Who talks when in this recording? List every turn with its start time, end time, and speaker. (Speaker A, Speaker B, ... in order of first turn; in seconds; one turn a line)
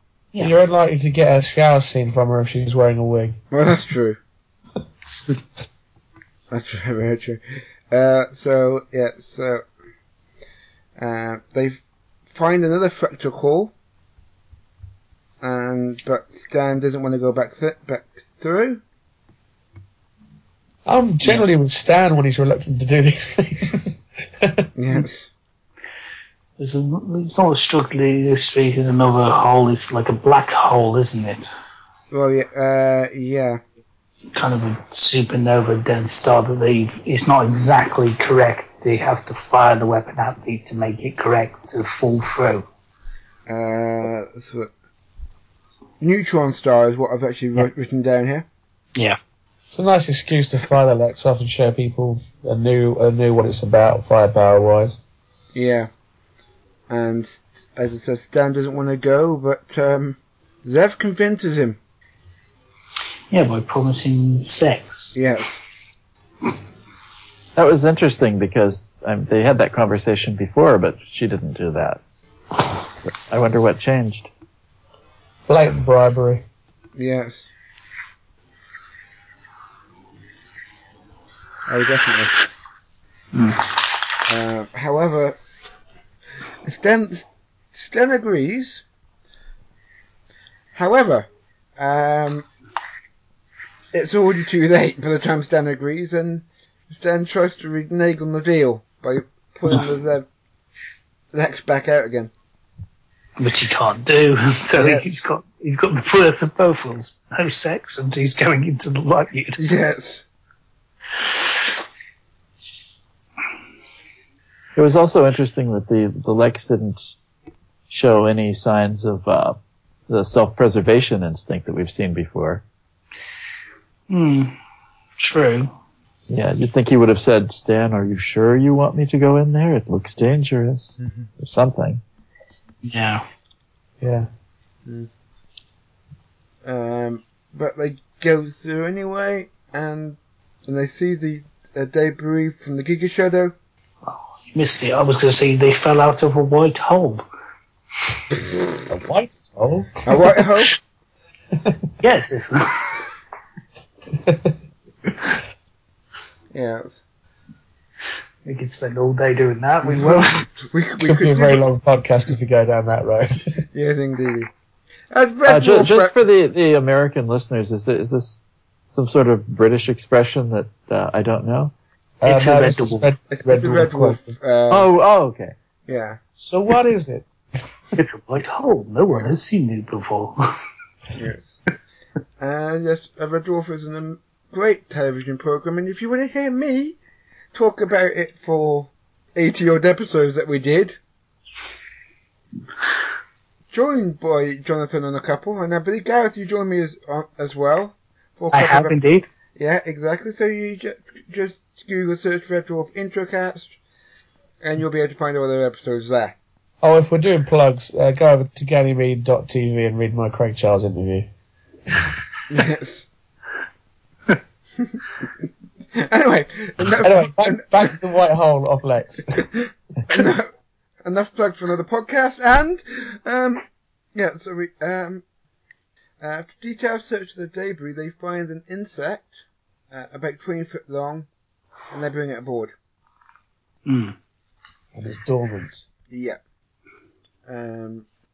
Speaker A: 0.4-3.4
Speaker B: 3.5-4.2
Speaker B: 6.5-9.6
Speaker B: 11.0-13.7
Speaker B: 15.4-18.8
Speaker A: 20.8-24.7
Speaker B: 24.8-25.3
Speaker C: 26.6-31.4
Speaker B: 32.1-33.6
Speaker C: 34.3-42.6
Speaker B: 43.5-44.7
Speaker B: 46.0-48.5
Speaker A: 49.7-55.0
Speaker B: 55.5-55.9
Speaker B: 56.9-61.8
Speaker C: 63.3-65.1
Speaker B: 65.1-65.6
Speaker D: 67.5-72.0
Speaker D: 72.9-74.3
Speaker A: 75.5-76.4
Speaker B: 77.0-77.5
Speaker B: 81.7-82.3
Speaker C: 83.3-83.6
Speaker B: 84.3-85.4
Speaker B: 86.6-88.8
Speaker B: 90.7-92.5
Speaker B: 93.9-100.3
Speaker B: 101.3-102.3
Speaker C: 103.4-109.9
Speaker B: 104.8-105.0
Speaker B: 109.6-110.2
Speaker D: 114.7-117.1
Speaker D: 117.9-119.6
Speaker D: 120.1-122.6
Speaker C: 124.1-124.5
Speaker C: 125.2-125.7
Speaker D: 126.3-132.0
Speaker B: 131.0-131.3
Speaker C: 132.8-133.2
Speaker A: 134.0-134.3
Speaker B: 136.6-143.5
Speaker C: 144.1-147.2
Speaker A: 148.9-149.9
Speaker B: 150.0-150.7
Speaker A: 151.5-151.9
Speaker C: 152.0-153.1
Speaker A: 154.1-154.5
Speaker B: 156.5-157.0
Speaker C: 158.4-160.4
Speaker B: 159.8-161.6
Speaker A: 161.0-163.4
Speaker B: 163.7-164.5
Speaker B: 165.1-166.1
Speaker D: 165.4-171.7
Speaker A: 172.2-174.3
Speaker C: 172.2-173.1
Speaker B: 173.3-174.9
Speaker D: 174.7-175.5
Speaker B: 175.9-176.2
Speaker A: 176.3-177.3
Speaker C: 178.0-180.3
Speaker B: 181.1-181.6
Speaker B: 182.4-187.0
Speaker B: 187.5-191.0
Speaker B: 193.7-199.0
Speaker C: 198.5-199.2
Speaker B: 199.6-203.8
Speaker B: 204.6-206.3
Speaker A: 206.8-211.3
Speaker B: 212.5-213.1
Speaker B: 216.0-217.9
Speaker A: 217.0-219.5
Speaker B: 220.1-220.5
Speaker B: 221.0-223.6
Speaker B: 224.1-225.2
Speaker B: 226.2-231.3
Speaker B: 231.9-232.7
Speaker C: 233.8-234.1
Speaker A: 234.9-235.9
Speaker B: 236.1-236.4
Speaker B: 237.5-238.1